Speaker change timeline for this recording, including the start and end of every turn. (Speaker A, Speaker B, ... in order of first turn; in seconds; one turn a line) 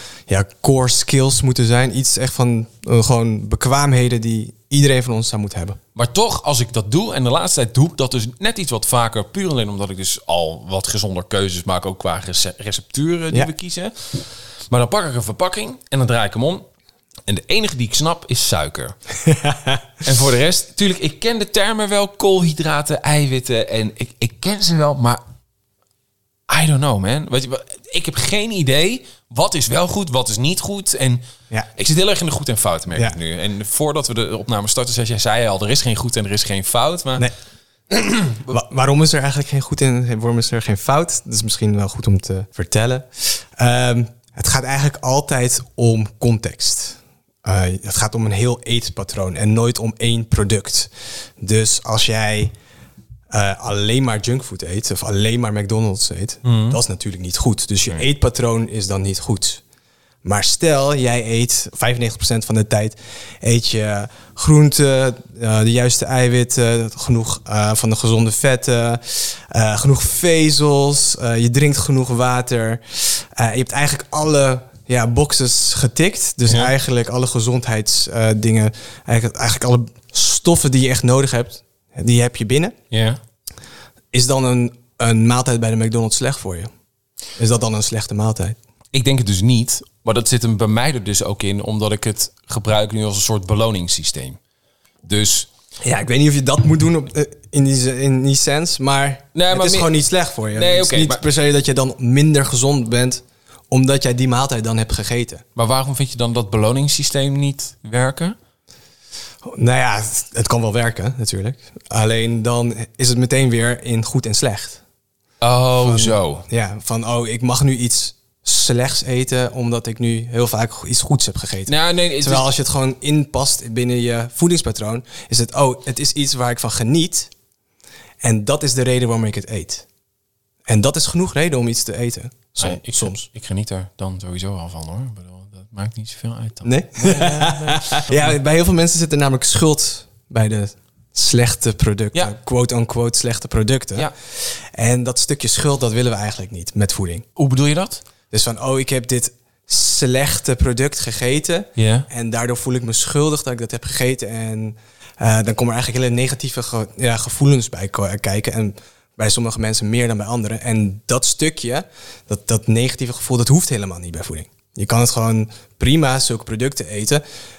Speaker A: 0.3-5.8
Speaker B: 6.0-16.7
Speaker B: 17.3-18.9
Speaker A: 19.3-19.8
Speaker B: 20.0-25.2
Speaker B: 26.5-31.2
Speaker B: 31.8-37.3
Speaker B: 37.9-38.5
Speaker A: 38.5-52.5
Speaker A: 53.3-59.6
Speaker B: 56.4-56.8
Speaker A: 60.2-82.8
Speaker B: 82.9-83.2
Speaker A: 84.1-86.7
Speaker A: 87.4-88.6
Speaker B: 88.9-94.4
Speaker B: 95.0-95.5
Speaker A: 95.8-105.4
Speaker B: 99.3-99.9
Speaker B: 100.5-101.2
Speaker B: 105.6-108.4
Speaker A: 109.4-114.8
Speaker B: 115.4-116.4
Speaker A: 115.8-127.3
Speaker B: 121.7-122.5
Speaker A: 128.2-129.8
Speaker A: 130.7-133.3
Speaker B: 132.6-138.3
Speaker A: 136.6-147.3
Speaker B: 147.4-148.0
Speaker A: 148.3-167.2
Speaker B: 151.8-152.1